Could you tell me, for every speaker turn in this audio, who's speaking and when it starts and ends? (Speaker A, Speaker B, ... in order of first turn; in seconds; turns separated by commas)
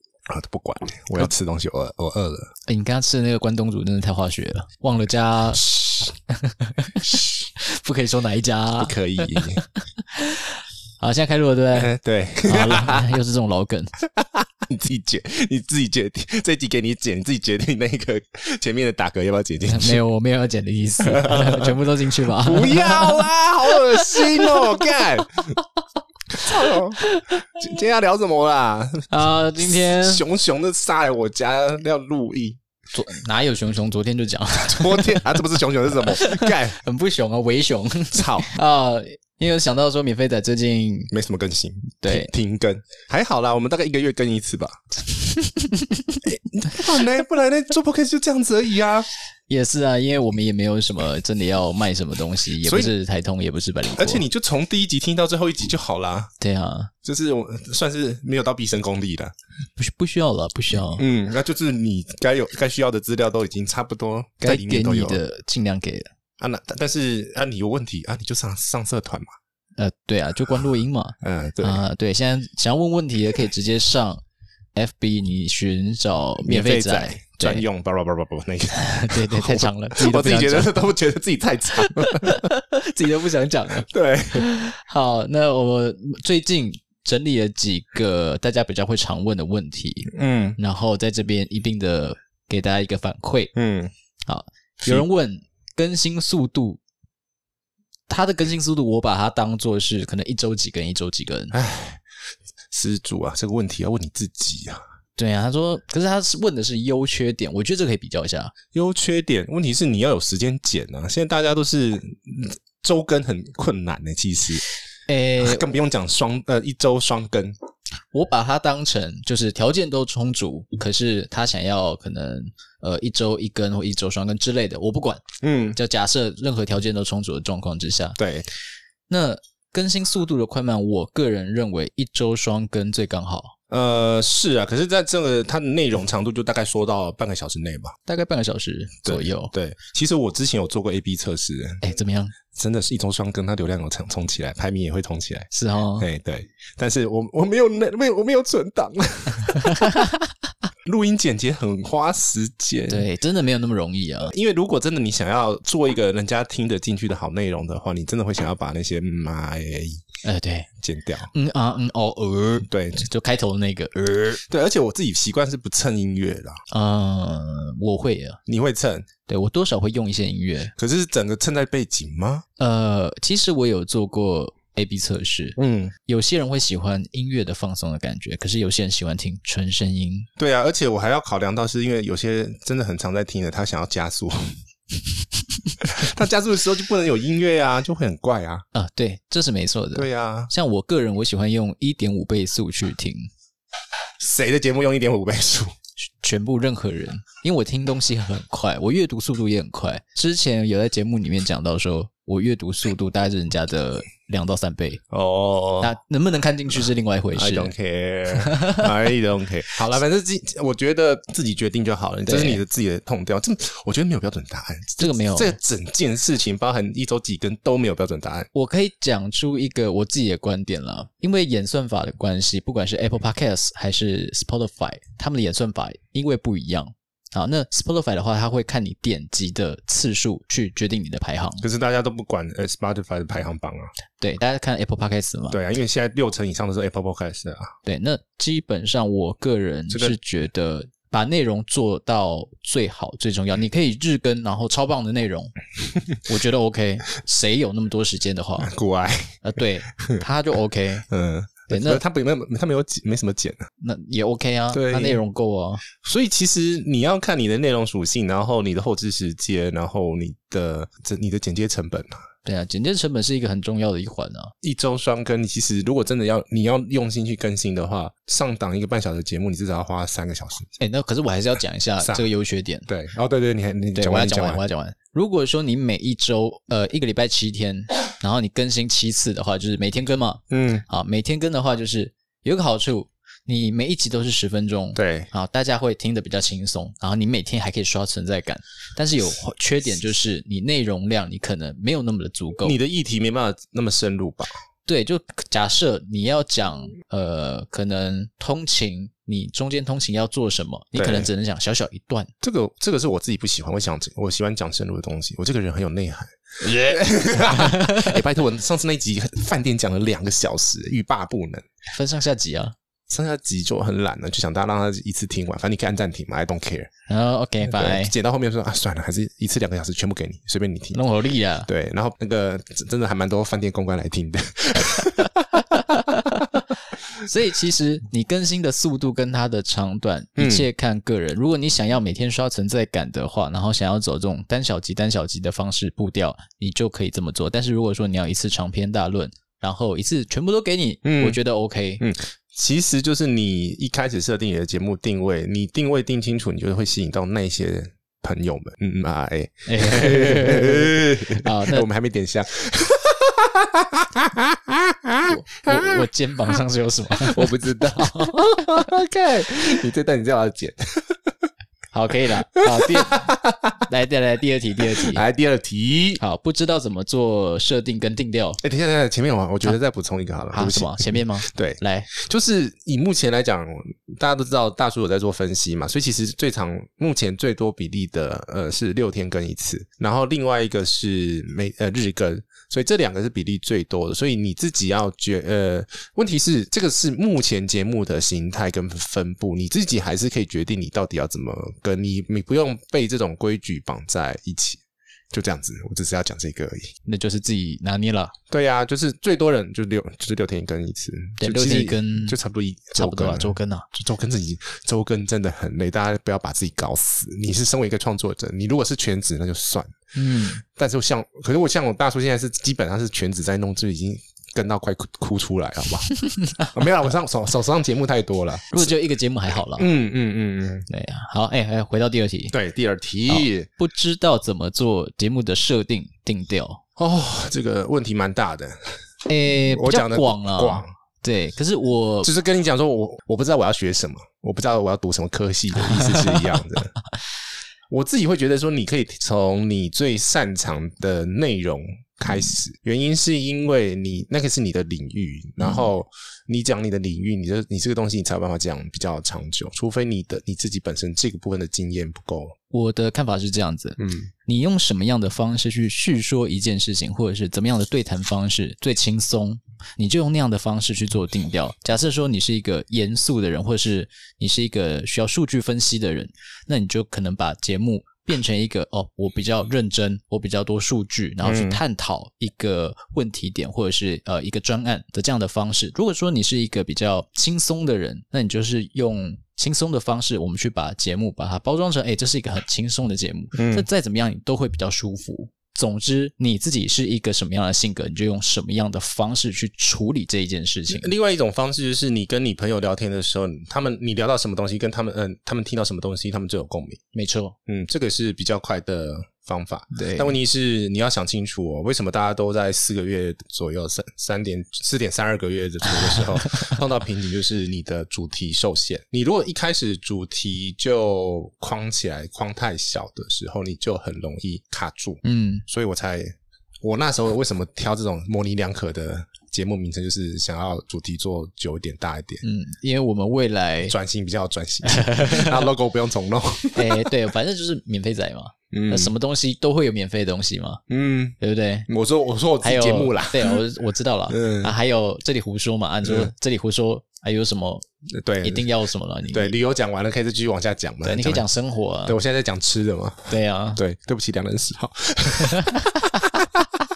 Speaker A: 0.3-2.5, Speaker B: 2.7-5.7, Speaker A: 5.6-6.1, Speaker B: 6.3-11.9, Speaker A: 8.8-9.7, Speaker A: 11.8-13.2, Speaker B: 12.4-13.9, Speaker A: 14.2-20.0, Speaker B: 19.7-25.0, Speaker A: 21.0-21.8, Speaker A: 22.3-25.6, Speaker A: 26.3-32.6, Speaker B: 26.7-27.5, Speaker B: 29.1-30.2, Speaker B: 32.9-35.3, Speaker A: 34.6-36.8, Speaker B: 35.9-41.1, Speaker A: 38.1-38.5, Speaker A: 41.1-44.8, Speaker B: 42.0-42.3, Speaker B: 45.2-46.2, Speaker A: 46.2-49.1, Speaker B: 49.5-54.2, Speaker A: 52.6-52.9, Speaker A: 54.0-56.3, Speaker B: 56.4-56.9, Speaker A: 57.0-59.3, Speaker B: 59.8-61.0, Speaker A: 61.0-65.2, Speaker B: 64.4-66.1, Speaker A: 66.4-69.3, Speaker B: 69.8-74.2, Speaker A: 71.2-71.8, Speaker B: 74.8-77.7, Speaker A: 76.4-82.5, Speaker B: 78.8-80.9, Speaker B: 81.8-93.5, Speaker A: 83.9-84.5, Speaker A: 90.1-90.6, Speaker A: 93.5-93.9, Speaker B: 94.3-96.8, Speaker B: 98.1-101.5, Speaker A: 101.5-102.0, Speaker A: 102.7-104.8, Speaker B: 105.2-108.5, Speaker A: 108.7-114.6, Speaker B: 115.1-115.7, Speaker A: 115.4-117.5, Speaker B: 118.1-125.2, Speaker A: 125.4-125.8, Speaker B: 125.8-128.2, Speaker A: 128.2-128.5, Speaker B: 129.1-133.6, Speaker A: 133.7-137.9, Speaker B: 138.1-139.5, Speaker A: 139.1-141.8, Speaker B: 141.8-142.4, Speaker A: 142.5-145.5, Speaker B: 145.5-146.1, Speaker A: 146.0-150.0, Speaker B: 149.7-150.1, Speaker A: 150.8-153.1, Speaker B: 152.9-154.3, Speaker A: 154.3-160.0, Speaker B: 160.2-160.7, Speaker A: 160.8-161.3, Speaker B: 161.3-164.4, Speaker A: 162.7-163.1, Speaker A: 164.4-166.6, Speaker B: 166.7-168.4, Speaker A: 168.5-169.1, Speaker B: 169.3-170.7, Speaker A: 170.8-172.4, Speaker B: 172.6-180.3, Speaker A: 175.6-175.9, Speaker A: 180.4-184.5, Speaker A: 185.8-188.7, Speaker B: 188.7-193.3, Speaker A: 189.9-190.5, Speaker A: 194.2-195.7, Speaker B: 196.2-205.0, Speaker A: 205.1-205.9, Speaker B: 205.8-207.7, Speaker A: 207.3-218.5, Speaker B: 208.3-208.9, Speaker B: 212.2-212.6, Speaker B: 215.0-215.6, Speaker B: 218.5-231.7, Speaker A: 231.6-233.9, Speaker B: 234.2-235.6, Speaker A: 235.5-237.7, Speaker B: 237.8-245.5, Speaker A: 239.9-240.2, Speaker B: 246.2-248.7, Speaker A: 248.6-249.4, Speaker B: 249.4-251.1, Speaker A: 251.1-253.7, Speaker B: 251.7-252.0, Speaker B: 253.8-255.8, Speaker A: 254.7-255.2, Speaker A: 255.9-262.2, Speaker B: 262.4-264.5, Speaker A: 264.6-270.7, Speaker B: 270.8-272.9, Speaker A: 272.9-274.6, Speaker B: 273.9-292.8, Speaker A: 280.5-280.8, Speaker A: 284.9-285.3, Speaker A: 292.6-294.5, Speaker B: 294.9-302.3, Speaker A: 300.9-301.3, Speaker A: 302.4-311.6, Speaker B: 306.6-308.2, Speaker B: 311.9-312.8, Speaker A: 313.1-316.9, Speaker B: 317.1-318.1, Speaker A: 317.6-321.0, Speaker B: 320.9-321.7, Speaker A: 321.7-325.6, Speaker B: 325.6-326.6, Speaker B: 327.2-342.0, Speaker A: 330.4-330.7, Speaker A: 341.0-341.4, Speaker A: 342.0-356.1, Speaker B: 349.7-351.9, Speaker B: 355.2-358.6, Speaker A: 357.2-361.3, Speaker B: 361.9-363.3, Speaker A: 362.7-363.8, Speaker B: 363.9-365.2, Speaker A: 364.9-366.2, Speaker B: 366.2-368.6, Speaker A: 368.6-394.8, Speaker B: 370.5-372.1, Speaker A: 395.3-396.9, Speaker B: 397.1-398.3, Speaker A: 398.5-409.9, Speaker B: 401.4-402.4, Speaker B: 403.0-403.9, Speaker B: 410.1-410.6, Speaker A: 410.6-416.1, Speaker B: 416.3-416.7, Speaker A: 416.7-418.9, Speaker B: 418.7-419.9, Speaker A: 419.8-420.9, Speaker B: 420.9-422.6, Speaker A: 422.5-423.7, Speaker B: 423.3-426.8, Speaker A: 427.0-429.0, Speaker B: 429.3-432.3, Speaker A: 429.7-430.9, Speaker A: 432.2-436.9, Speaker B: 435.8-436.6, Speaker A: 437.9-452.6, Speaker B: 445.6-445.9, Speaker B: 452.7-491.1, Speaker A: 454.0-454.3, Speaker A: 471.4-471.8, Speaker A: 483.6-483.9, Speaker A: 490.9-497.0, Speaker B: 497.1-497.6, Speaker A: 497.7-522.4, Speaker B: 499.9-500.4, Speaker B: 506.1-506.7, Speaker B: 515.2-515.6, Speaker B: 522.4-524.0, Speaker A: 523.9-527.1, Speaker B: 524.8-525.6, Speaker B: 526.8-530.8, Speaker A: 528.7-529.1, Speaker A: 530.9-531.4, Speaker B: 531.4-531.9, Speaker A: 531.9-533.6, Speaker B: 532.6-537.9, Speaker A: 534.3-534.7, Speaker A: 536.0-536.3, Speaker A: 538.1-538.7, Speaker B: 538.4-539.5, Speaker A: 539.3-541.5, Speaker B: 541.0-542.2, Speaker A: 542.1-546.7, Speaker B: 543.3-543.8, Speaker B: 545.4-545.8